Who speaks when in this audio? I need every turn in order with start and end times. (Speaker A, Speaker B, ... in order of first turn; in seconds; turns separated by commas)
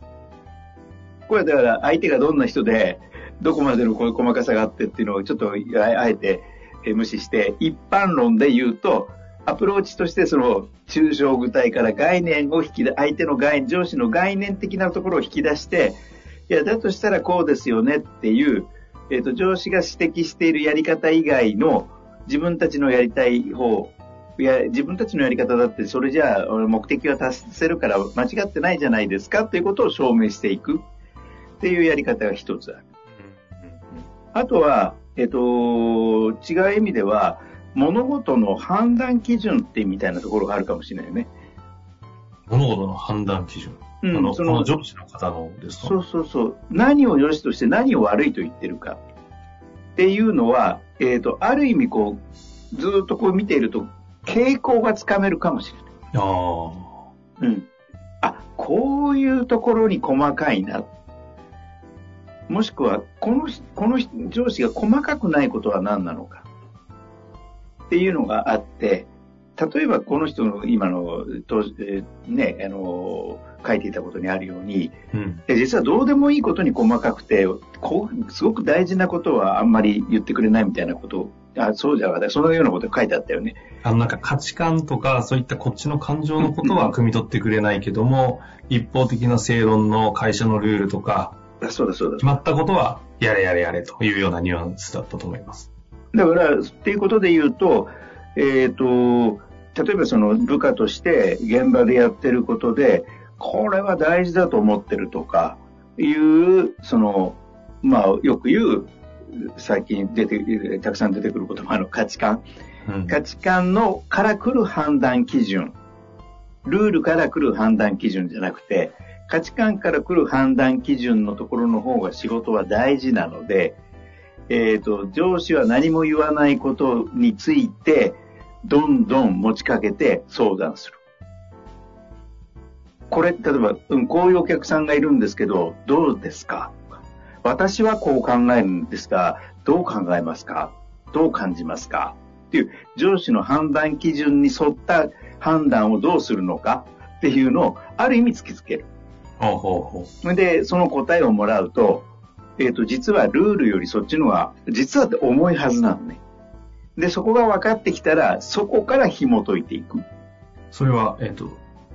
Speaker A: 1.3-30.8, Speaker A: 31.6-32.8, Speaker B: 33.2-34.0, Speaker A: 34.3-41.3, Speaker B: 42.5-45.9, Speaker A: 44.0-44.7, Speaker A: 45.8-49.0, Speaker A: 50.0-52.2, Speaker A: 52.7-55.8, Speaker B: 56.1-57.0, Speaker A: 57.4-57.7, Speaker A: 58.2-60.9, Speaker A: 62.5-66.5, Speaker A: 67.9-74.9, Speaker B: 75.1-75.4, Speaker A: 75.5-83.6, Speaker B: 83.8-91.3, Speaker A: 86.6-86.9, Speaker A: 91.6-92.2, Speaker B: 92.2-95.7, Speaker A: 96.1-112.4, Speaker B: 112.8-113.2, Speaker A: 113.1-115.7, Speaker A: 116.6-123.8, Speaker A: 124.5-131.0, Speaker A: 133.1-148.9, Speaker B: 149.4-150.1, Speaker A: 150.2-152.1, Speaker A: 152.6-156.2, Speaker A: 156.9-160.0, Speaker B: 160.7-161.6